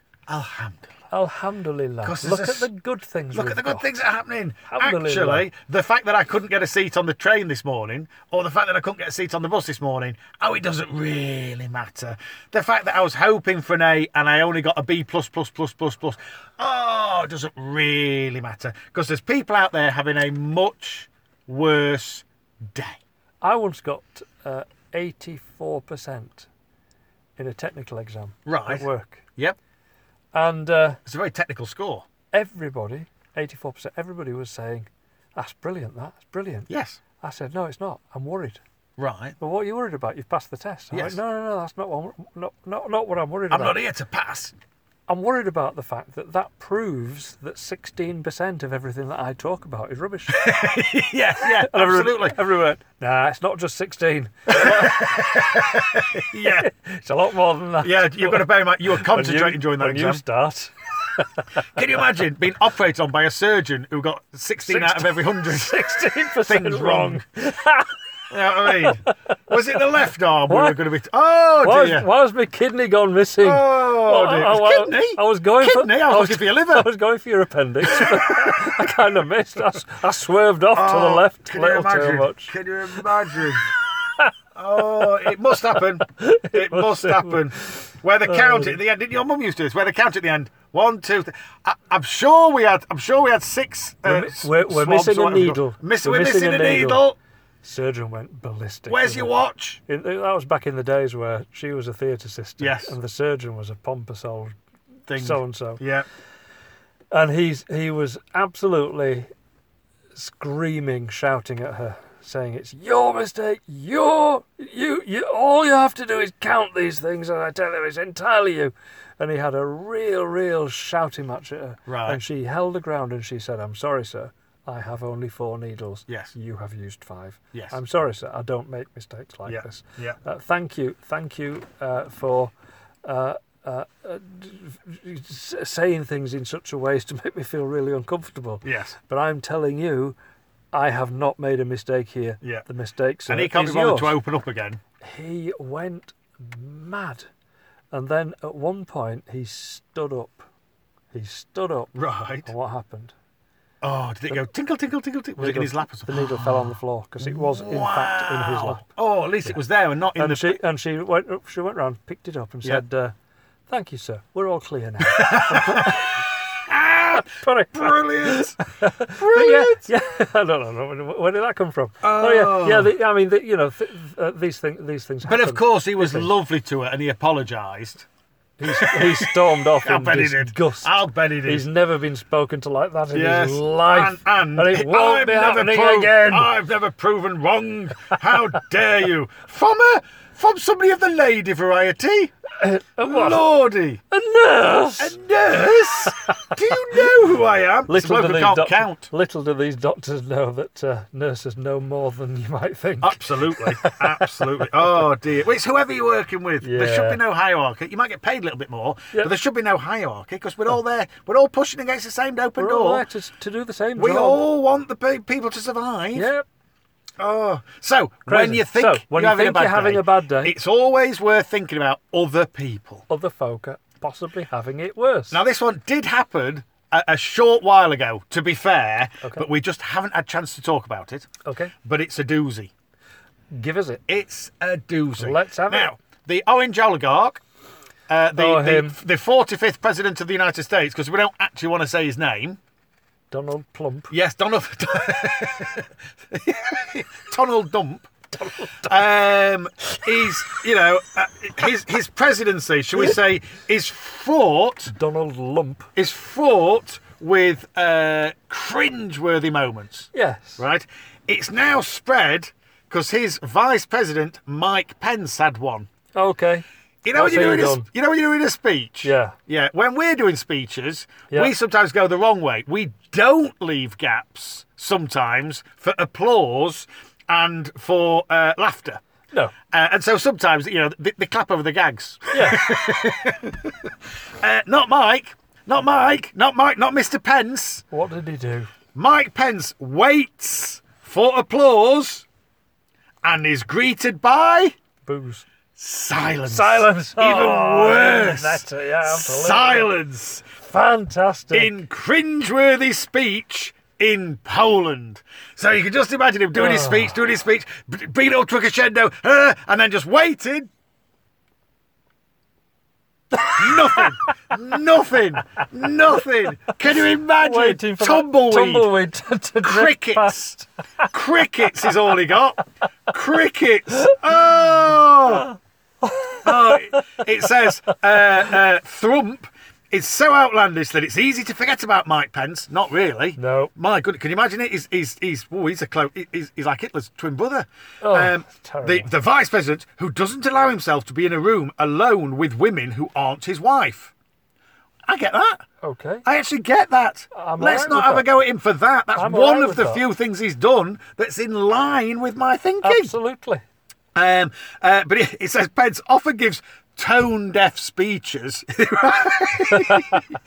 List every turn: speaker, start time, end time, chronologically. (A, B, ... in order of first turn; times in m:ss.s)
0:00.3-0:01.0 A
0:01.1-0:03.9 B
0:02.0-0:02.7 A
0:03.3-0:23.0 A
0:04.7-0:05.5 B
0:23.4-0:26.5 B
0:27.4-0:29.2 B
0:28.5-0:29.6 A
0:30.3-0:31.0 B
0:31.1-0:32.1 A
0:32.3-0:36.7 B
0:36.7-0:37.0 A
0:37.2-0:38.6 B
0:39.0-0:39.4 A
0:39.4-0:43.8 B
0:40.9-0:41.2 A
0:43.5-0:44.5 A
0:45.1-0:50.5 B
0:50.3-0:52.4 A
0:51.4-0:55.7 B
0:54.5-0:56.7 A
0:56.4-1:01.4 B
0:57.8-1:00.2 A
1:01.7-1:05.8 A
1:04.6-1:07.9 B
1:06.4-1:07.2 A
1:08.3-1:12.1 A
1:08.7-1:09.4 B
1:10.5-1:10.8 B
1:11.6-1:22.5 B
1:13.4-1:16.9 A
1:17.9-1:18.8 A
1:20.7-1:23.7 A
1:24.6-1:37.2 A
1:26.0-1:28.8 B
1:34.0-1:37.0 B
1:37.6-1:39.4 B
1:38.9-1:39.8 A
1:39.9-1:44.6 B
1:42.6-1:43.0 A
1:45.1-1:46.1 A
1:45.2-1:45.8 B
1:47.1-1:49.3 B
1:50.2-2:12.5 B
2:01.9-2:02.2 A
2:07.5-2:07.8 A
2:09.5-2:10.2 A
2:13.0-2:20.2 B
2:18.6-2:19.0 A
2:20.7-2:24.2 B
2:23.3-2:24.8 A
2:25.0-2:27.3 B
2:27.9-2:30.5 B
2:31.1-2:33.2 B
2:32.0-2:32.5 A
2:33.8-2:36.7 A
2:35.4-2:38.8 B
2:37.2-2:40.6 A
2:40.2-2:43.1 B
2:43.7-2:46.2 B
2:45.0-2:46.1 A
2:46.7-2:48.6 A
2:47.1-2:56.3 B
2:49.1-2:49.9 A
2:52.0-2:52.9 A
2:55.2-2:58.1 A
2:58.6-3:06.5 B
2:58.6-3:01.7 A
3:03.1-3:12.3 A
3:12.6-3:13.4 B
3:13.0-3:14.0 A
3:14.1-3:15.2 B
3:15.0-3:19.1 A
3:16.1-3:17.1 B
3:17.9-3:24.7 B
3:23.0-3:33.0 A
3:26.6-3:27.2 B
3:32.6-3:34.4 B
3:34.0-3:36.3 A
3:36.1-3:36.4 B
3:37.2-3:43.1 A
3:38.3-3:40.6 B
3:43.1-3:45.4 B
3:45.3-3:51.3 A
3:51.4-3:51.7 B
3:51.8-3:52.7 A
3:53.5-3:54.0 B
3:54.1-3:57.4 A
3:55.2-3:56.0 B
3:58.1-4:02.6 A
3:58.4-3:59.0 B
4:03.3-4:04.1 B
4:04.1-4:08.1 A
4:08.3-4:08.9 B
4:08.8-4:14.9 A
4:14.9-4:15.9 B
4:16.0-4:25.9 A
4:20.1-4:20.6 B
4:26.2-4:27.9 B
4:27.0-4:39.0 A
4:29.0-4:29.4 B
4:39.7-4:47.9 A
4:42.3-4:42.6 B
4:47.9-4:48.7 B
4:49.0-4:52.2 A
4:53.2-4:54.8 A
4:55.0-4:55.5 B
4:55.8-5:00.5 A
4:56.5-4:59.9 B
5:00.6-5:01.8 B
5:01.5-5:10.7 A
5:06.5-5:07.2 B
5:13.3-5:14.3 B
5:13.5-5:18.9 A
5:17.4-5:21.1 B
5:19.6-5:20.6 A
5:21.1-5:25.5 A
5:26.0-5:27.2 B
5:26.4-5:44.1 A
5:33.4-5:33.7 B
5:38.0-5:39.1 B
5:45.1-5:45.6 A
5:45.8-5:46.2 B
5:46.3-5:53.1 A
5:47.3-5:48.3 B
5:49.2-5:50.0 B
5:52.8-5:53.6 B
5:54.2-6:00.3 A
5:59.7-6:00.2 B